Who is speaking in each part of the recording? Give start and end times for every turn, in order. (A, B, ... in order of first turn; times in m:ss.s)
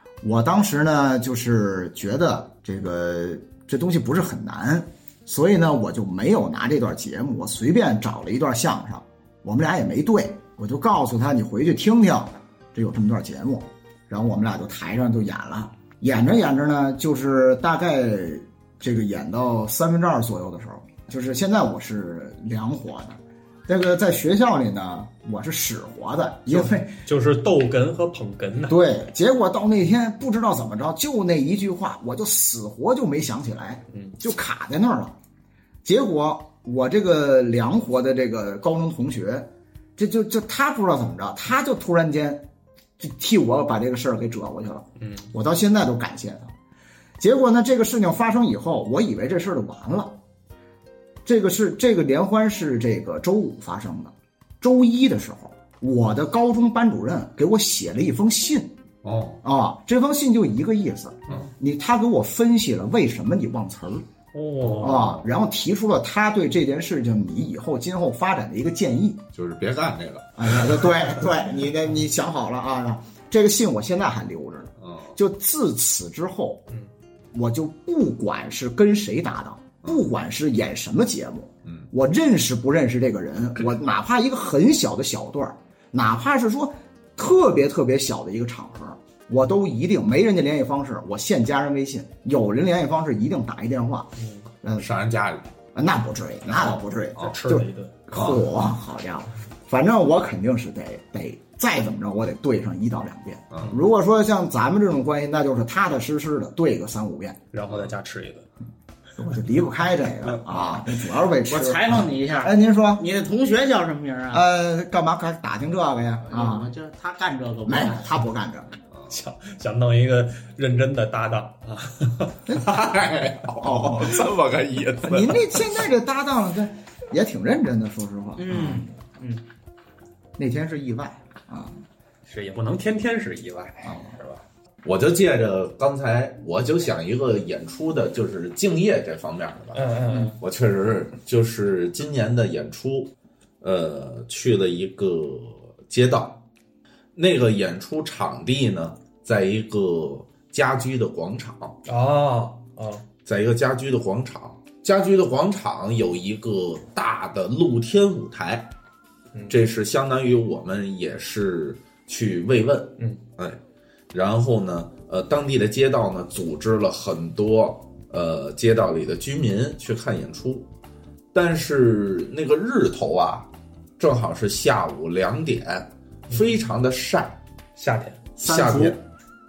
0:00.2-0:27.0 A
0:26.5-0:28.8 B
0:28.7-0:35.1 A
0:35.8-0:42.4 A
0:43.0-0:46.5 A
0:45.0-0:45.3 B
0:47.2-0:50.2 A
0:51.2-0:58.7 A
0:59.0-0:59.4 C
0:59.4-1:04.0 A
1:04.3-1:05.1 B
1:04.6-1:05.2 C
1:04.8-1:09.2 A
1:09.3-1:10.6 C
1:10.4-1:16.7 A
1:14.8-1:15.2 C
1:17.3-1:34.9 A
1:34.2-1:34.4 B
1:34.8-1:35.5 C
1:35.7-1:47.4 A
1:37.2-1:37.9 B
1:38.1-1:38.4 C
1:43.5-1:43.8 C
1:47.5-1:48.4 B
1:49.2-1:53.0 A
1:51.5-1:54.4 D
1:54.3-1:56.7 A
1:56.3-1:58.1 D
1:57.7-1:58.7 A
1:59.1-2:02.7 B
2:02.5-2:02.8 A
2:02.6-2:05.7 C
2:03.6-2:04.2 A
2:05.0-2:08.9 A
2:08.4-2:09.4 D
2:10.4-2:11.8 A
2:12.2-2:14.4 B
2:13.8-2:14.1 A
2:14.8-2:19.8 C
2:19.7-2:20.4 B
2:20.4-2:26.4 C
2:27.2-2:31.8 C
2:31.9-2:33.0 B
2:33.2-2:38.7 C
2:39.5-2:43.6 C
2:44.1-2:50.7 C
2:51.3-2:53.5 C
2:54.0-2:57.4 C
2:57.8-2:58.2 B
2:58.4-2:59.0 C
2:58.4-2:59.0 D